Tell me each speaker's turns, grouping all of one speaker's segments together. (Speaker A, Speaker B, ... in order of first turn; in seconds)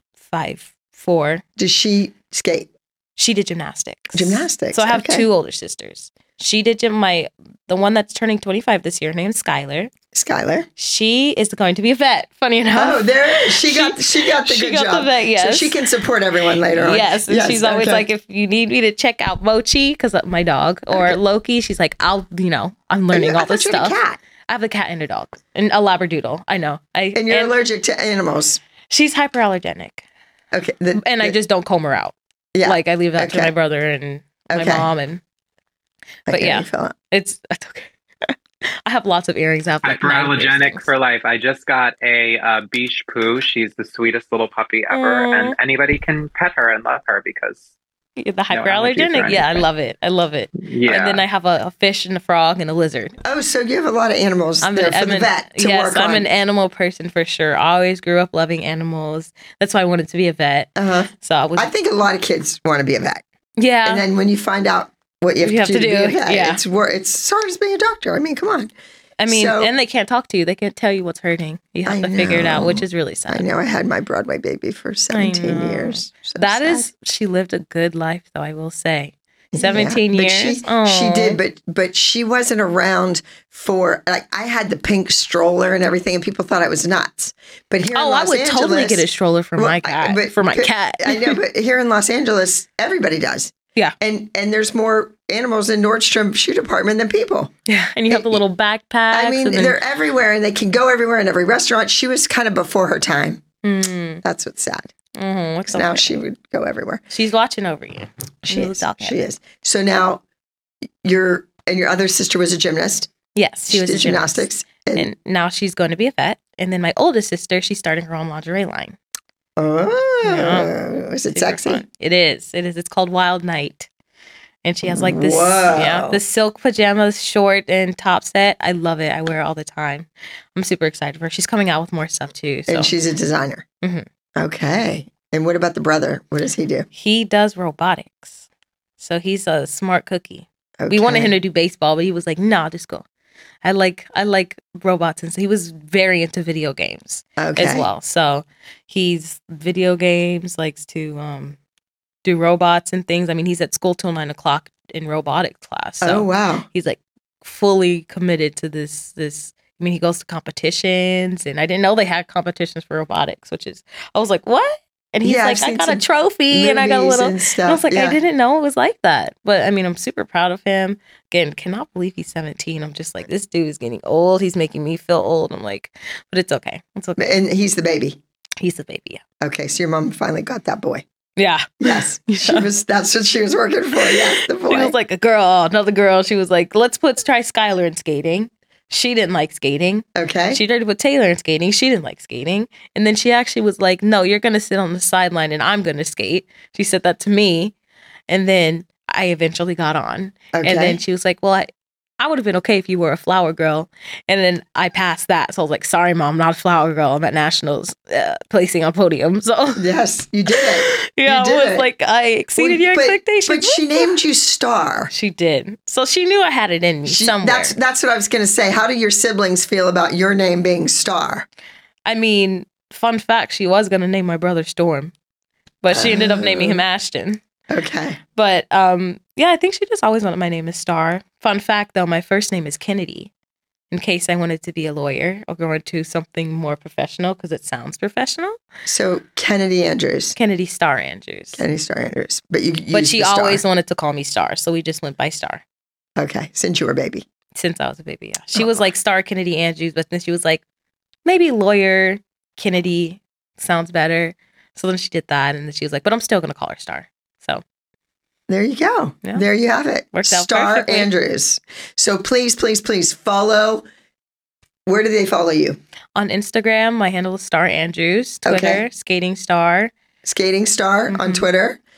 Speaker A: 0.2-1.4, 3.2-9.9, 10.8-15.8, 16.7-27.6, 28.9-30.1, 30.9-35.2, 36.2-38.3, 38.9-40.9, 44.9-45.5, 48.2-53.1, 54.6-61.7, 63.6-64.0, 65.4-66.6, 69.2-73.4, 75.1-81.4, 87.9-91.4, 97.7-99.8, 103.6-104.2, 105.2-106.2, 107.1-109.2, 113.3-119.0, 120.2-120.8, 121.3-123.9, 124.6-132.9, 133.8-134.1, 136.9-138.4, 139.0-143.0, 143.6-151.6, 152.2-177.3, 178.6-179.2, 181.4-182.7, 184.0-197.7, 198.3-201.7, 202.2-209.9, 210.5-214.1, 215.1-217.8, 222.1-225.1, 225.8-227.4, 228.3-233.3, 233.9-238.6, 240.3-241.6, 242.9-245.6, 247.5-250.6, 251.2-257.6, 260.1-261.1, 266.1-269.9, 271.1-271.4
Speaker B: 1.6-2.7, 4.1-5.2, 10.1-10.7, 12.7-18.1, 20.9-21.2, 23.1-24.2, 27.1-28.6, 30.5-31.3, 32.5-33.5, 34.5-34.9, 36.3-36.9, 53.2-56.2, 60.8-63.2, 63.8-68.7, 69.3-69.7, 71.9-76.9, 79.5-89.0, 89.6-97.5, 98.1-98.4, 99.1-103.4, 104.2-104.9, 105.7-107.0, 108.4-110.2, 111.0-113.1, 113.7-115.1, 119.6-121.8, 124.9-126.2, 132.7-133.6, 134.4-136.9, 140.8-141.3, 147.4-147.9, 156.0-156.7, 165.2-168.2, 177.2-178.2, 179.4-181.0, 181.8-184.9, 190.1-190.6, 200.5-201.0, 209.8-211.9, 212.6-215.1, 217.1-221.5, 225.9-226.8, 227.7-228.2, 238.9-240.4, 241.6-243.6, 246.2-247.2, 248.5-248.9, 258.5-263.8, 264.9-265.8, 268.4-268.8, 270.2-271.8
Speaker C: 39.8-47.6, 48.5-49.7, 50.6-51.2